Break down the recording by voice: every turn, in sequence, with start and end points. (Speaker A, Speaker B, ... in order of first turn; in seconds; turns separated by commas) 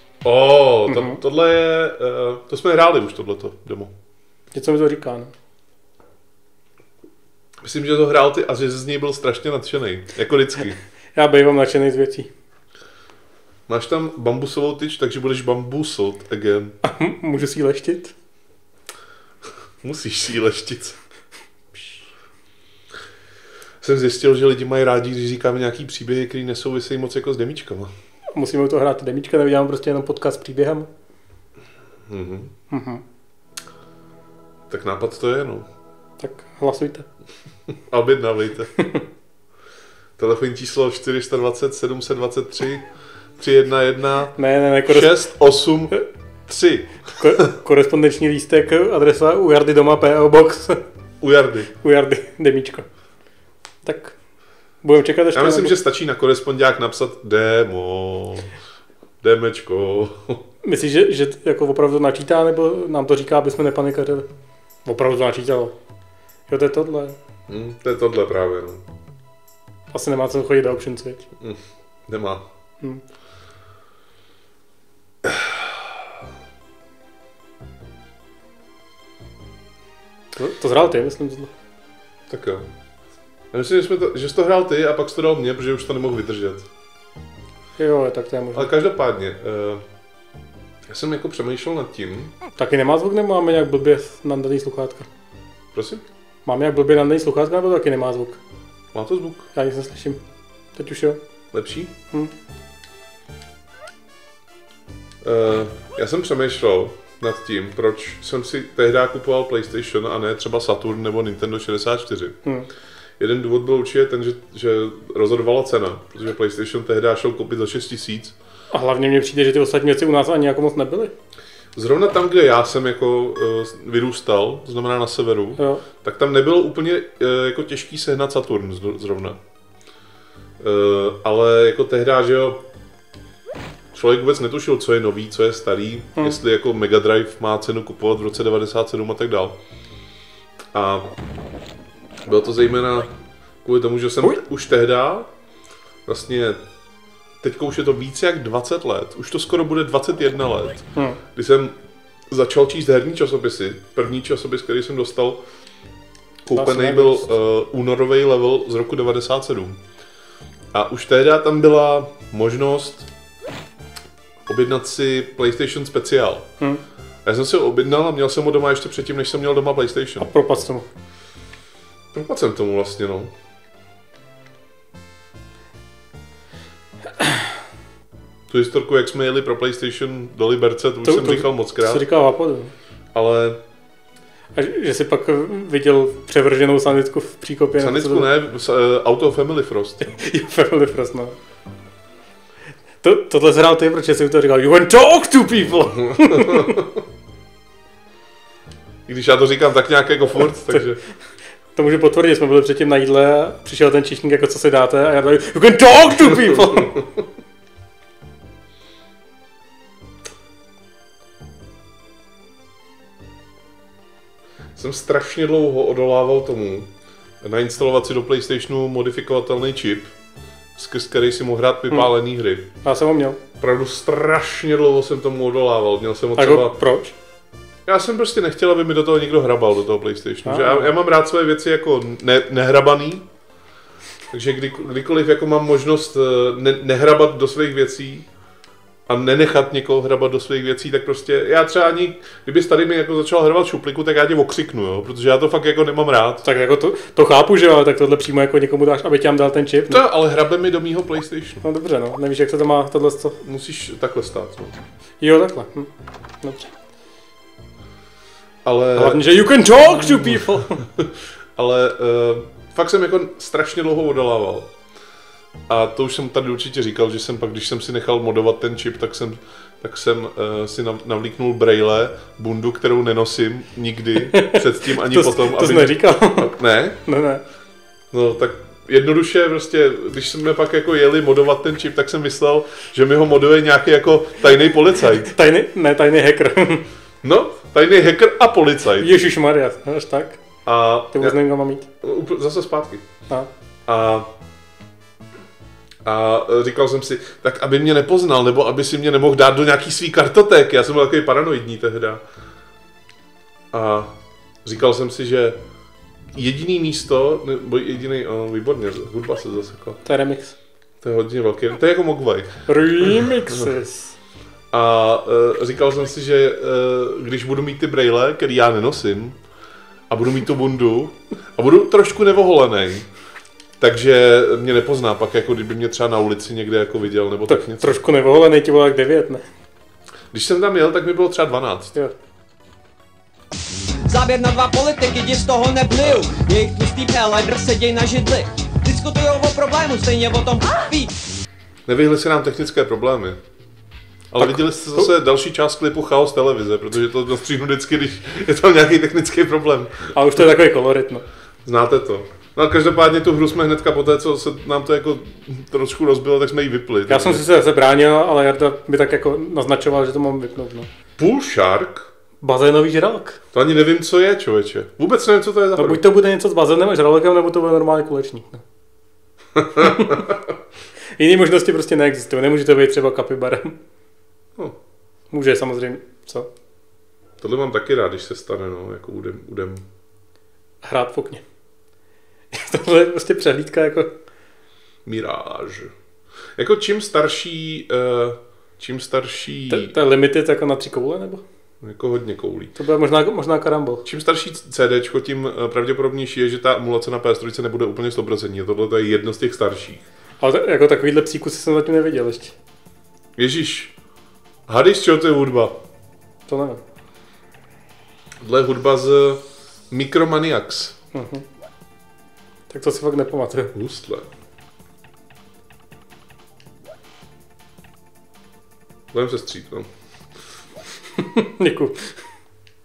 Speaker A: 0.2-3.9, Speaker B: 0.9-1.2, Speaker B: 4.5-5.3, Speaker A: 7.6-10.8, Speaker B: 11.1-12.3, Speaker A: 13.7-16.8, Speaker B: 16.8-18.1, Speaker A: 19.8-21.0, Speaker A: 23.8-27.9, Speaker B: 28.3-30.9, Speaker A: 32.1-32.5, Speaker B: 32.7-33.0, Speaker A: 34.7-35.7, Speaker B: 36.2-37.0, Speaker A: 37.9-38.7, Speaker B: 38.8-39.0, Speaker A: 40.2-42.9, Speaker A: 43.4-45.9, Speaker B: 44.4-45.3, Speaker A: 46.5-46.9, Speaker B: 47.1-50.8, Speaker A: 51.2-51.7, Speaker B: 51.8-52.9, Speaker B: 53.8-54.1, Speaker B: 54.8-55.7, Speaker A: 55.3-58.5, Speaker A: 59.2-60.4, Speaker B: 60.6-64.3, Speaker B: 64.8-65.7, Speaker B: 66.5-67.2, Speaker A: 67.5-68.8, Speaker B: 69.9-71.2, Speaker A: 71.4-72.5, Speaker A: 75.2-76.0, Speaker B: 80.3-81.5, Speaker A: 82.3-82.7, Speaker A: 83.5-86.7, Speaker B: 87.8-88.7, Speaker A: 88.5-89.8, Speaker A: 90.9-92.3, Speaker B: 92.6-95.1, Speaker A: 95.7-96.0, Speaker B: 96.4-98.4, Speaker A: 98.9-99.5, Speaker B: 99.5-100.2, Speaker B: 100.7-101.2, Speaker A: 101.5-101.9, Speaker A: 105.2-112.4, Speaker A: 113.2-118.3, Speaker B: 118.7-121.1, Speaker A: 121.7-129.4, Speaker B: 125.6-125.8, Speaker A: 130.6-132.6, Speaker A: 133.9-139.6, Speaker A: 140.7-141.1, Speaker A: 142.2-143.1, Speaker A: 143.6-145.3, Speaker A: 146.1-146.6, Speaker A: 147.4-151.8, Speaker A: 152.3-155.4, Speaker A: 156.4-159.8, Speaker B: 156.5-157.3, Speaker A: 160.7-163.1, Speaker A: 164.4-166.5, Speaker A: 167.2-170.3, Speaker B: 170.2-170.9, Speaker A: 172.1-173.3, Speaker A: 178.5-182.0, Speaker B: 181.0-182.7, Speaker A: 183.1-183.6, Speaker B: 184.5-188.3, Speaker A: 187.8-190.1, Speaker B: 190.0-191.4, Speaker B: 193.0-196.8, Speaker A: 195.9-197.0, Speaker A: 199.1-201.0, Speaker B: 201.7-207.1, Speaker A: 206.5-207.0, Speaker A: 214.8-220.1, Speaker A: 220.8-222.7, Speaker B: 222.8-223.4, Speaker A: 223.6-226.8, Speaker B: 226.4-227.1, Speaker A: 227.8-233.3, Speaker B: 230.4-230.9, Speaker A: 234.3-238.3, Speaker A: 239.1-246.4, Speaker B: 246.4-250.0, Speaker A: 249.9-251.6, Speaker B: 251.6-253.4, Speaker A: 253.4-254.8, Speaker B: 255.2-255.9, Speaker B: 256.4-256.7, Speaker A: 258.6-264.7, Speaker B: 258.9-260.8, Speaker A: 265.7-277.0, Speaker B: 274.3-276.5, Speaker B: 277.0-277.4, Speaker A: 278.1-285.3, Speaker B: 285.2-286.8, Speaker A: 287.2-289.1, Speaker B: 289.0-290.4, Speaker A: 290.6-291.4, Speaker B: 291.1-291.9, Speaker A: 292.0-293.0, Speaker A: 293.9-294.3, Speaker A: 296.0-302.2, Speaker A: 303.7-304.1, Speaker A: 304.6-305.6, Speaker A: 306.3-310.0, Speaker B: 310.0-310.5, Speaker A: 311.0-313.2, Speaker B: 312.7-314.1, Speaker A: 314.7-319.4, Speaker A: 320.1-323.1, Speaker A: 323.8-328.0, Speaker B: 327.5-329.4, Speaker A: 330.3-331.9, Speaker C: 334.1-341.1, Speaker A: 341.9-343.4, Speaker A: 344.3-350.1, Speaker B: 344.4-345.1, Speaker B: 350.1-351.2, Speaker A: 351.6-357.4, Speaker B: 357.1-360.9, Speaker A: 361.2-362.1, Speaker B: 362.4-363.4, Speaker A: 363.5-366.0, Speaker B: 365.8-368.6, Speaker A: 369.6-370.5, Speaker B: 369.8-370.3, Speaker B: 371.2-373.8, Speaker B: 375.3-376.5, Speaker A: 377.4-379.8, Speaker B: 380.8-381.4, Speaker B: 382.5-384.1, Speaker A: 385.0-385.9, Speaker A: 386.6-389.9, Speaker B: 389.7-391.4, Speaker A: 391.8-392.7, Speaker B: 392.8-394.1, Speaker A: 394.0-400.0, Speaker B: 400.4-402.5, Speaker A: 403.4-403.9, Speaker A: 404.7-405.8, Speaker B: 406.5-406.8, Speaker A: 408.4-411.0, Speaker B: 411.1-411.4, Speaker B: 412.7-413.7, Speaker A: 413.7-414.3, Speaker A: 419.1-419.9, Speaker B: 421.2-422.1